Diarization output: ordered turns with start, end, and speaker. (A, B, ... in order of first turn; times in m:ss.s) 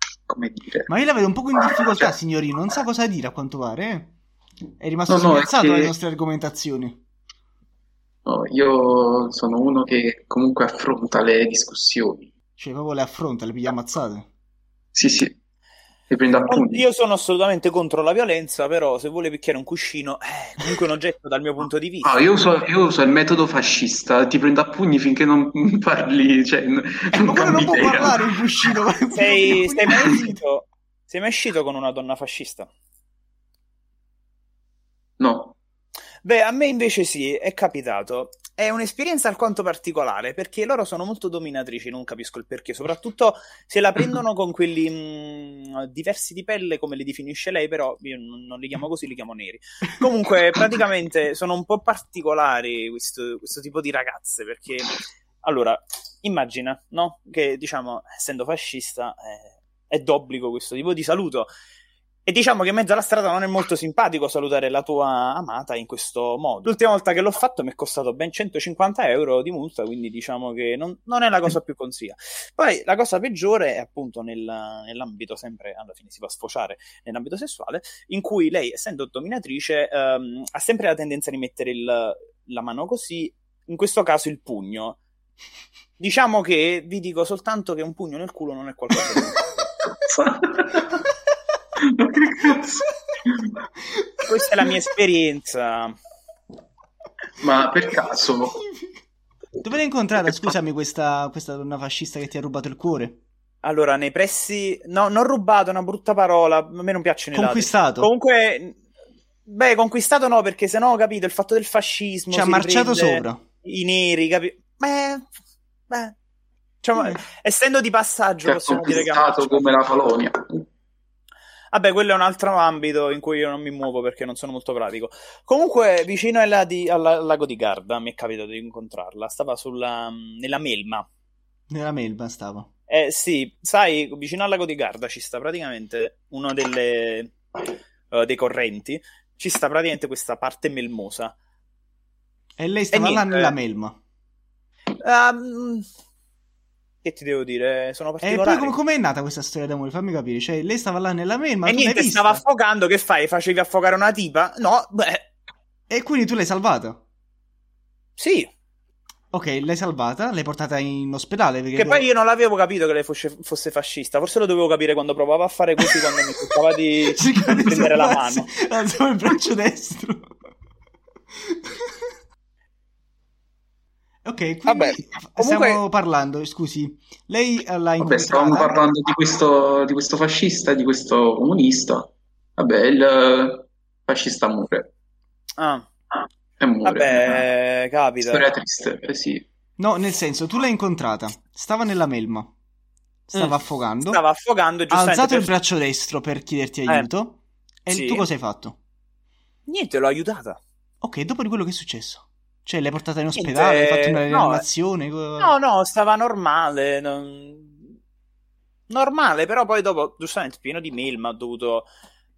0:00.3-0:00.9 A
0:00.9-0:04.2 B
0:01.6-0:02.1 A
0:04.8-0:07.0 B
0:05.1-0:05.9 A
0:08.2-0:12.3 A
0:12.6-0:14.3 B
0:14.9-0:15.4 A
0:16.1-0:16.8 A
0:16.5-0:22.2 C
0:22.0-0:28.2 A
0:27.1-0:30.4 B
0:29.2-0:32.7 C
0:35.2-0:35.6 A
0:36.2-1:01.5 C
1:02.2-1:25.0 C
1:26.0-1:29.4 C
1:30.0-1:30.9 A
1:32.0-1:33.5 A
1:34.3-1:35.9 C
1:37.4-1:38.6 A
1:39.6-1:43.2 B
1:43.6-1:48.8 C
1:47.3-1:48.1 B
1:49.5-1:55.2 C
1:52.3-1:53.4 B
1:55.9-1:56.2 C
1:56.8-1:59.9 C
1:57.0-1:57.2 B
1:58.4-2:00.7 A
2:01.7-2:11.0 C
2:11.7-2:12.7 B
2:12.9-2:21.3 C
2:22.6-2:24.0 B
2:22.9-2:23.5 C
2:25.0-2:25.8 C
2:27.0-2:28.8 C
2:28.2-2:32.4 B
2:31.7-2:35.3 C
2:35.9-2:37.0 B
2:38.2-2:38.5 C
2:39.3-2:42.0 B
2:41.8-2:48.5 C
2:47.0-2:50.3 B
2:54.2-2:58.8 B
2:54.7-2:55.8 C
2:58.0-3:04.9 A
3:05.6-3:05.8 C
3:06.6-3:07.4 A
3:06.8-3:08.5 C
3:08.3-3:09.4 A
3:09.8-3:12.5 B
3:13.3-3:14.2 B
3:13.3-3:15.5 C
3:14.9-3:18.8 B
3:17.9-3:18.3 C
3:19.7-3:20.6 C
3:21.0-3:25.5 B
3:23.4-3:24.6 C
3:25.4-3:28.0 C
3:28.9-3:31.9 C